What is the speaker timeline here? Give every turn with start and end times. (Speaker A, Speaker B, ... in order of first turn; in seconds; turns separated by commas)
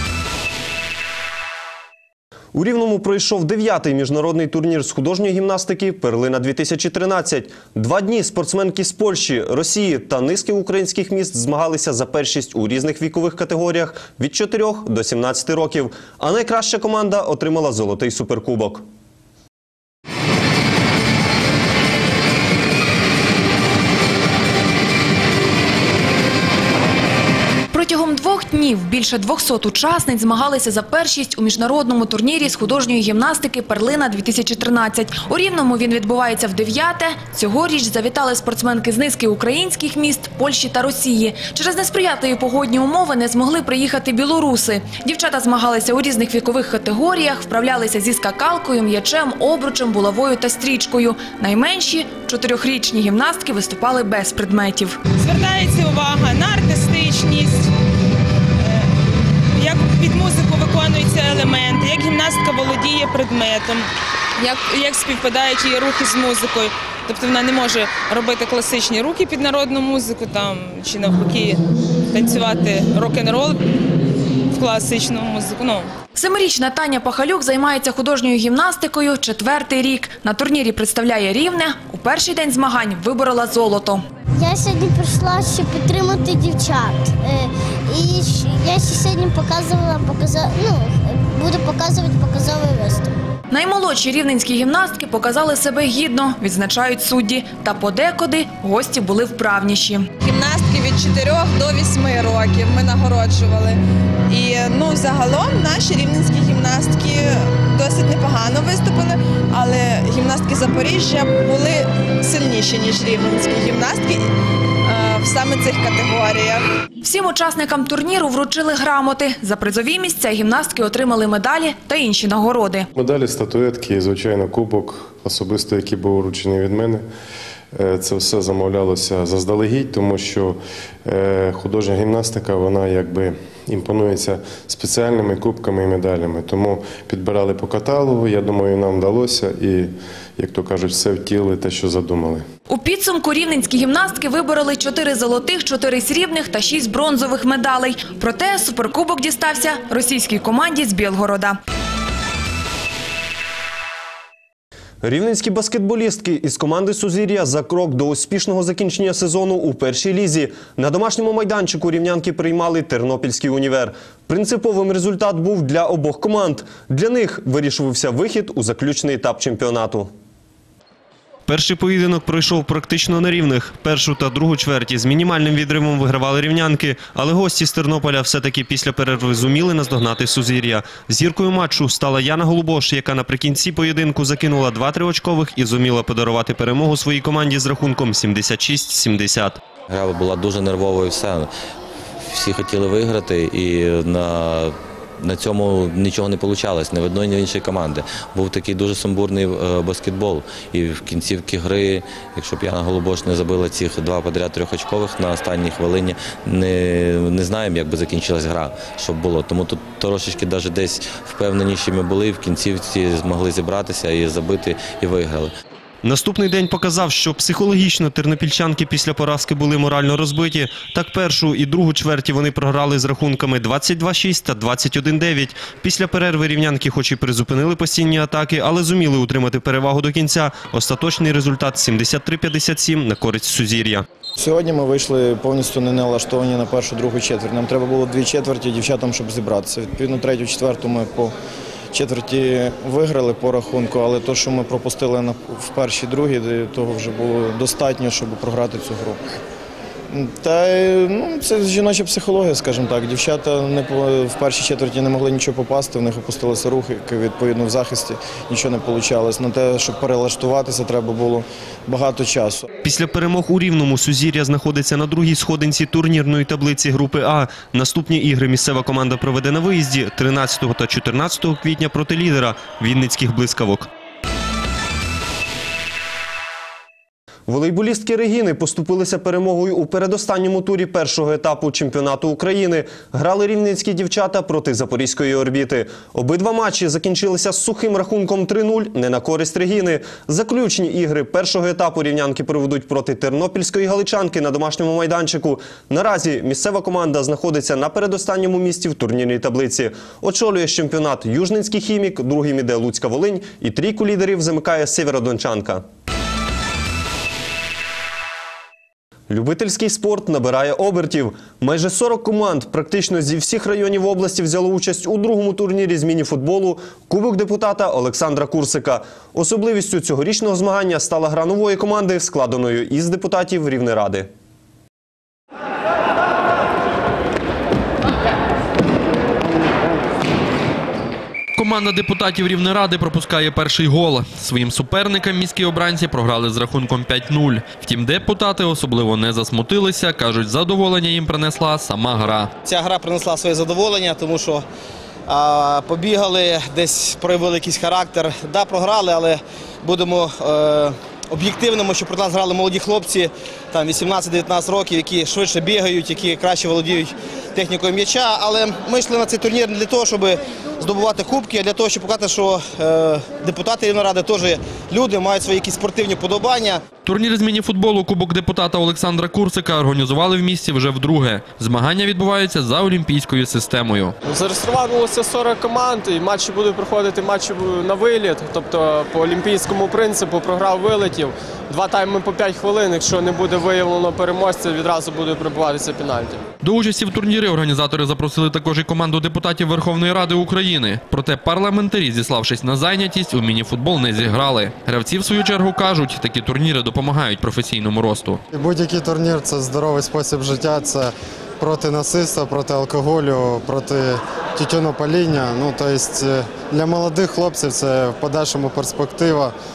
Speaker A: 2.5-18.8, Speaker B: 27.7-55.0, Speaker C: 55.2-57.7, Speaker C: 58.6-58.9, Speaker C: 59.5-71.6, Speaker C: 72.1-73.6, Speaker C: 74.5-75.9, Speaker B: 76.1-84.0, Speaker D: 84.3-93.1, Speaker B: 93.5-100.1, Speaker E: 100.2-114.3, Speaker E: 114.8-116.7, Speaker B: 117.0-122.9, Speaker F: 122.9-127.0, Speaker F: 127.7-142.4, Speaker B: 142.7-151.6, Speaker A: 155.0-170.1, Speaker A: 171.4-189.6, Speaker G: 189.9-191.5, Speaker G: 192.3-215.5, Speaker A: 216.0-234.0, Speaker H: 234.4-241.3, Speaker H: 241.9-249.4, Speaker H: 250.1-262.6, Speaker A: 262.8-273.9, Speaker A: 277.5-305.8, Speaker A: 309.3-324.3, Speaker I: 331.6-342.5, Speaker J: 342.6-344.6, Speaker J: 345.3-366.8, Speaker I: 367.0-374.1, Speaker K: 374.2-386.4, Speaker I: 386.6-398.4, Speaker L: 398.5-409.5